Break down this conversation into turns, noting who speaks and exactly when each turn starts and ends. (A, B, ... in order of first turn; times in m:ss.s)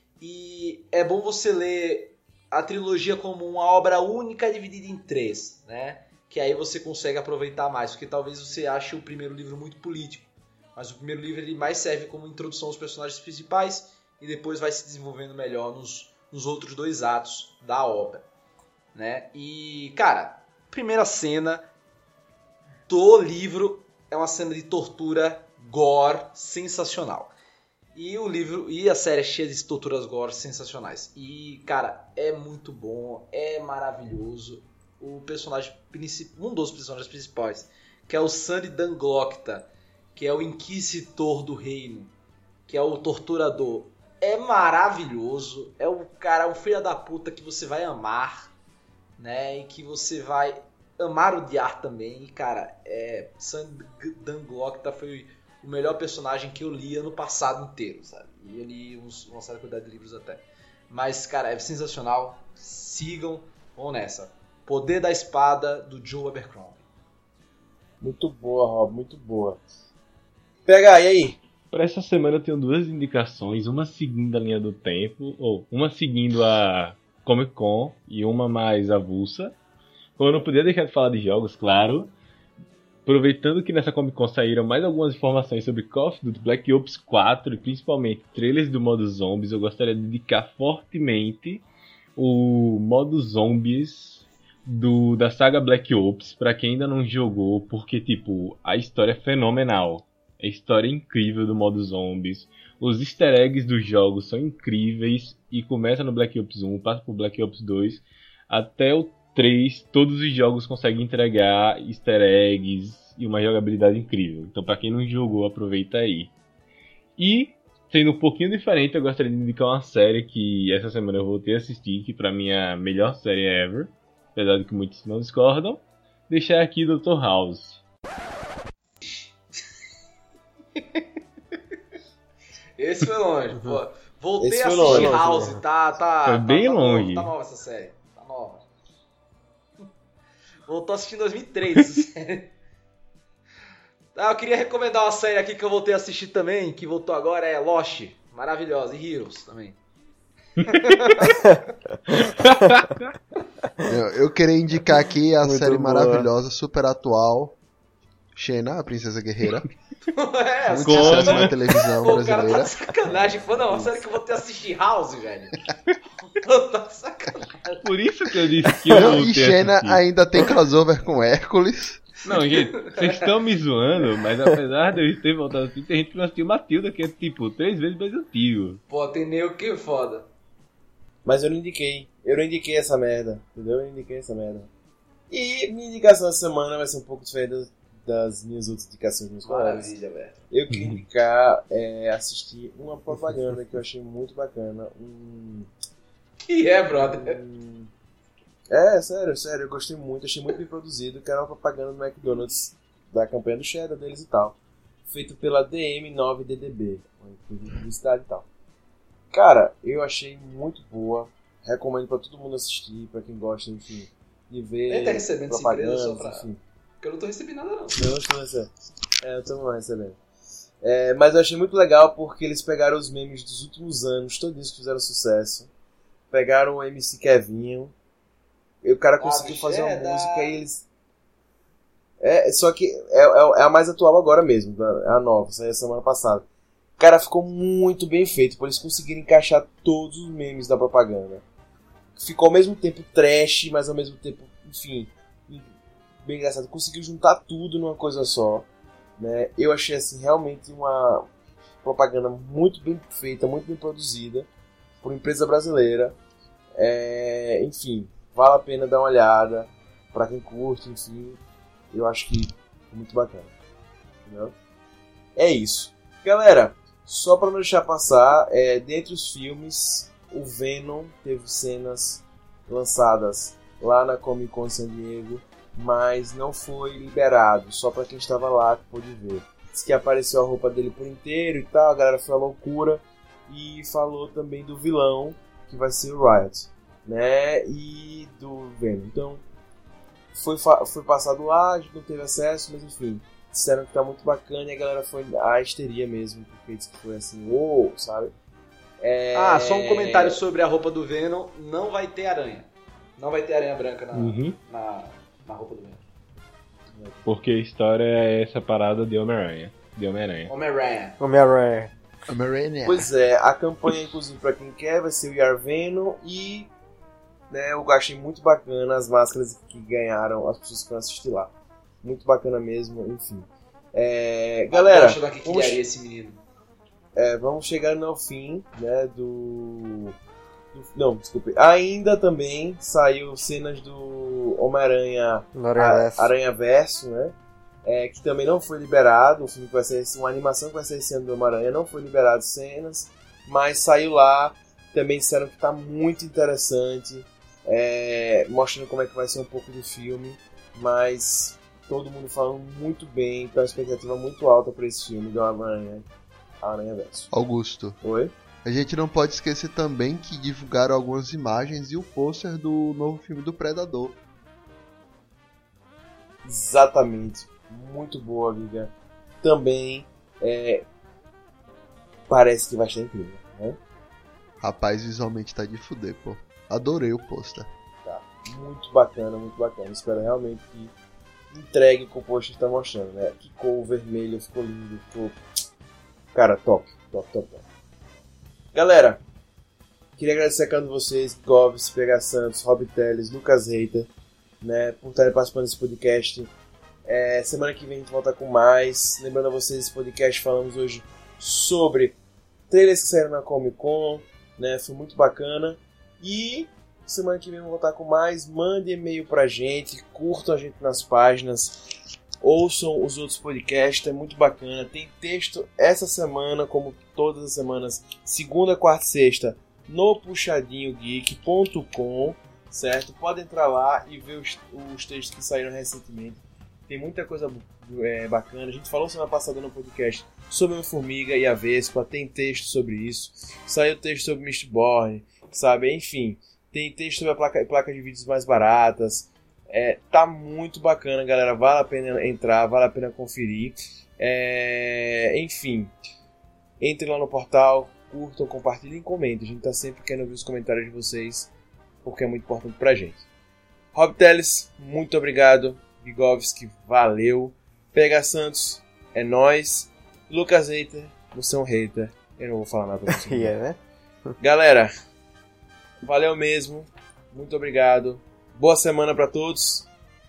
0:00.2-0:18.2 A
0:18.9-0:21.6 A
0:22.9-0:27.3 A
0:28.0-0:42.1 A
0:42.7-0:48.5 A
0:49.2-1:06.8 A
1:08.0-1:09.6 B
1:10.7-1:11.4 B
1:11.7-1:19.5 C
1:20.2-1:22.1 C
1:23.0-1:31.6 C
1:32.2-1:56.3 C
1:57.2-2:07.8 C
2:09.0-2:09.4 A
2:10.8-2:11.0 A
2:12.8-2:18.6 A
2:13.5-2:13.8 D
2:14.4-2:15.4 B
2:14.8-2:15.6 D
2:16.2-2:17.3 C
2:20.7-2:22.5 A
2:24.1-2:29.8 A
2:30.6-2:31.6 A
2:32.2-2:33.0 C
2:33.8-2:37.6 E
2:35.4-2:36.3 D
2:38.4-2:39.7 E
2:40.1-2:45.6 A
2:40.7-2:42.7 E
2:40.8-2:41.6 C
2:43.5-2:43.9 B
2:46.2-2:47.8 A
2:47.8-2:50.0 C
2:48.9-2:52.1 E
2:52.2-2:58.8 C
2:52.8-2:53.1 A
2:58.9-3:00.3 A
3:01.2-3:04.7 B
3:05.3-3:09.9 B
3:09.4-3:10.4 A
3:10.5-3:15.7 B
3:10.7-3:11.0 C
3:16.5-3:17.4 A
3:16.9-3:17.9 B
3:18.7-3:28.4 B
3:29.3-3:36.6 B
3:34.9-3:36.5 A
3:37.0-3:38.0 A
3:37.9-3:38.7 B
3:39.2-3:40.2 B
3:40.8-3:45.7 B
3:46.3-3:47.9 B
3:48.8-3:50.8 B
3:49.2-3:50.6 A
3:52.2-3:56.4 B
3:57.0-4:01.4 B
4:02.1-4:05.7 B
4:06.2-4:11.3 B
4:11.8-4:14.5 B
4:15.0-4:16.2 B
4:16.8-4:21.4 B
4:21.9-4:23.5 B
4:24.2-4:24.5 B
4:25.4-4:49.4 B
4:50.3-4:58.3 B
4:59.0-5:00.4 B
4:59.3-5:06.0 A
5:04.1-5:04.6 C
5:06.9-5:07.2 B
5:07.2-5:10.5 C
5:10.5-5:11.2 A
5:11.2-5:11.9 D
5:12.3-5:13.1 E
5:12.8-5:16.7 B
5:17.5-5:25.8 B
5:24.7-5:26.4 A
5:27.1-5:30.1 B
5:30.7-5:56.1 B
5:35.5-5:36.3 D
5:56.6-5:57.3 B
5:57.3-5:58.0 E
5:58.0-5:58.3 B
5:58.6-6:04.2 E
6:06.4-6:10.8 B
6:12.3-6:13.8 B
6:14.6-6:17.7 E
6:18.0-6:20.9 B
6:21.5-6:25.4 B
6:26.3-6:27.6 B
6:28.7-6:29.2 B
6:30.2-6:34.1 B
6:34.6-6:36.5 B
6:37.0-6:42.2 B
6:42.7-6:51.8 B
6:52.4-7:25.9 B
7:26.8-7:31.5 B
7:32.0-7:33.2 B
7:33.9-7:43.6 B
7:43.1-7:44.3 D
7:44.4-7:44.9 B
7:46.0-7:49.9 B